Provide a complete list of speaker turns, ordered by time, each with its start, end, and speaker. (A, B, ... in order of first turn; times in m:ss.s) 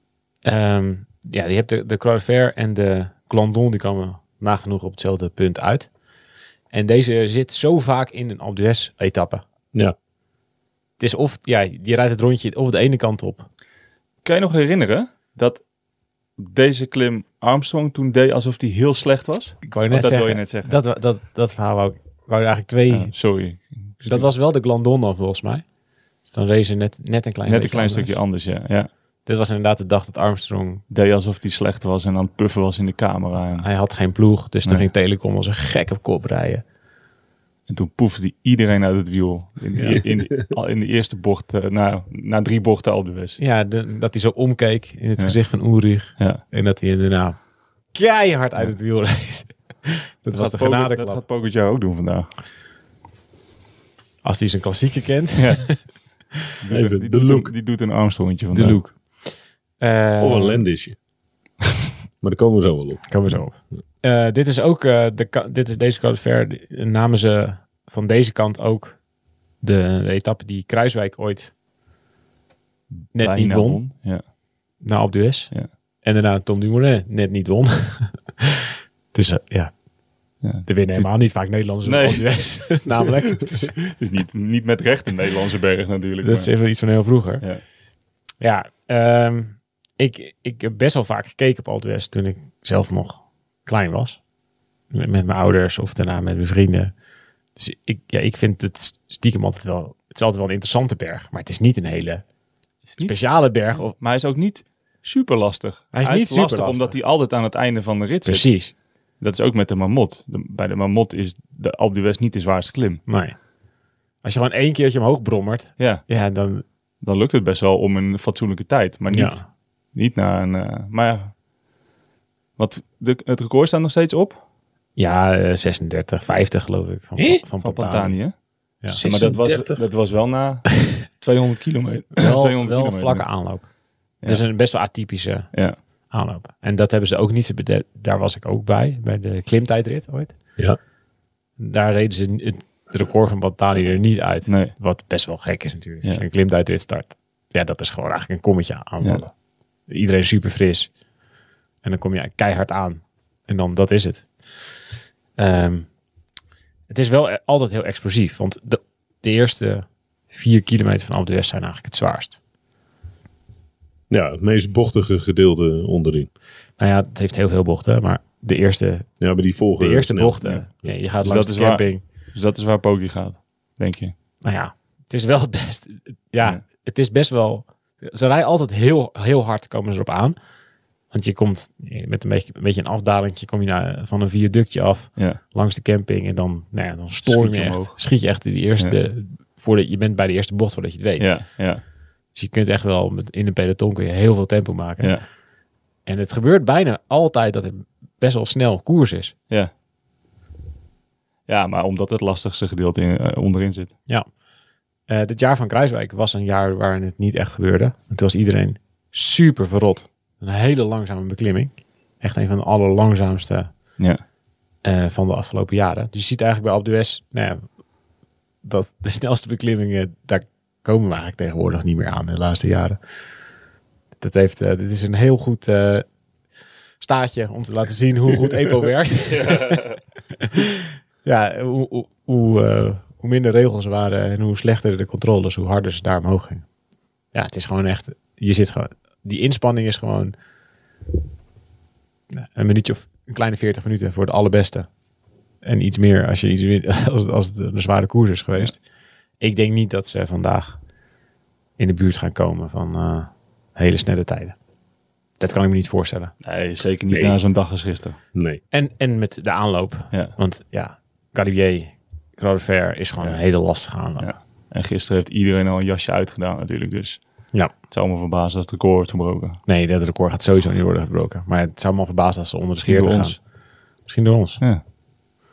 0:00.4-0:05.9 A
0:06.7-0:09.4 A
0:11.0-0:13.5 A
0:14.2-0:15.6 B
0:16.4-0:20.7 B
0:19.6-0:23.1 A
0:22.9-0:24.3 B
0:24.0-0:25.6 A
0:26.2-0:28.2 A
0:27.5-0:28.9 B
0:29.2-0:30.8 A
0:30.9-0:33.7 B
0:33.6-0:36.6 A
0:37.7-0:43.4 B
0:39.8-0:40.5 C
0:43.4-0:47.4 A
0:47.9-0:51.2 A
0:50.3-0:52.3 B
0:54.2-0:55.8 A
0:55.4-0:55.7 B
0:56.6-0:58.8 B
0:56.7-0:57.5 C
0:58.5-0:59.0 A
0:59.8-1:00.6 A
1:00.2-1:01.0 C
1:02.2-1:03.0 C
1:03.1-1:09.0 A
1:09.6-1:11.5 A
1:13.1-1:13.8 A
1:13.2-1:14.2 B
1:14.8-1:15.5 A
1:16.0-1:19.7 A
1:20.4-1:21.1 B
1:20.6-1:23.9 A
1:21.8-1:22.5 B
1:23.9-1:26.5 B
1:26.2-1:27.4 A
1:28.4-1:34.2 A
1:34.9-1:36.9 A
1:37.6-1:42.2 A
1:42.9-1:48.5 B
1:43.0-1:44.0 A
1:45.9-1:47.0 A
1:48.2-1:48.7 A
1:49.2-1:53.0 B
1:53.1-1:53.4 A
1:54.2-1:56.6 A
1:55.8-1:56.1 B
1:57.0-2:01.3 B
1:59.1-1:59.4 A
2:02.6-2:04.4 B
2:05.0-2:08.2 A
2:07.6-2:08.4 B
2:08.9-2:13.3 B
2:09.0-2:09.9 C
2:12.2-2:13.7 A
2:14.2-2:15.5 A
2:16.1-2:20.3 A
2:21.6-2:29.3 A
2:24.5-2:24.7 B
2:29.9-2:30.9 A
2:31.8-2:34.3 A
2:35.4-2:35.9 A
2:36.9-2:42.4 A
2:44.1-2:46.3 C
2:46.8-2:49.1 A
2:49.2-2:50.4 C
2:49.8-2:52.0 A
2:51.2-2:54.1 B
2:54.4-3:00.4 A
3:01.1-3:11.4 A
3:07.2-3:08.0 B
3:11.2-3:11.8 B
3:12.3-3:15.2 A
3:16.1-3:19.3 A
3:21.5-3:23.9 B
3:25.1-3:33.7 A
3:34.8-3:37.7 A
3:38.6-3:43.0 A
3:44.2-3:46.1 A
3:47.0-3:49.8 A
3:49.3-3:50.0 B
3:50.5-3:50.7 A
3:51.2-3:56.6 A
3:57.3-4:00.3 A
4:02.3-4:04.9 A
4:05.6-4:08.8 A
4:09.4-4:10.8 A
4:11.8-4:14.6 A
4:15.4-4:16.3 A
4:16.4-4:18.2 B
4:17.1-4:17.4 C
4:18.3-4:18.6 C
4:18.7-4:24.3 A
4:24.2-4:27.2 B
4:27.9-4:29.6 B
4:29.7-4:33.4 A
4:32.8-4:33.4 B
4:34.1-4:34.6 A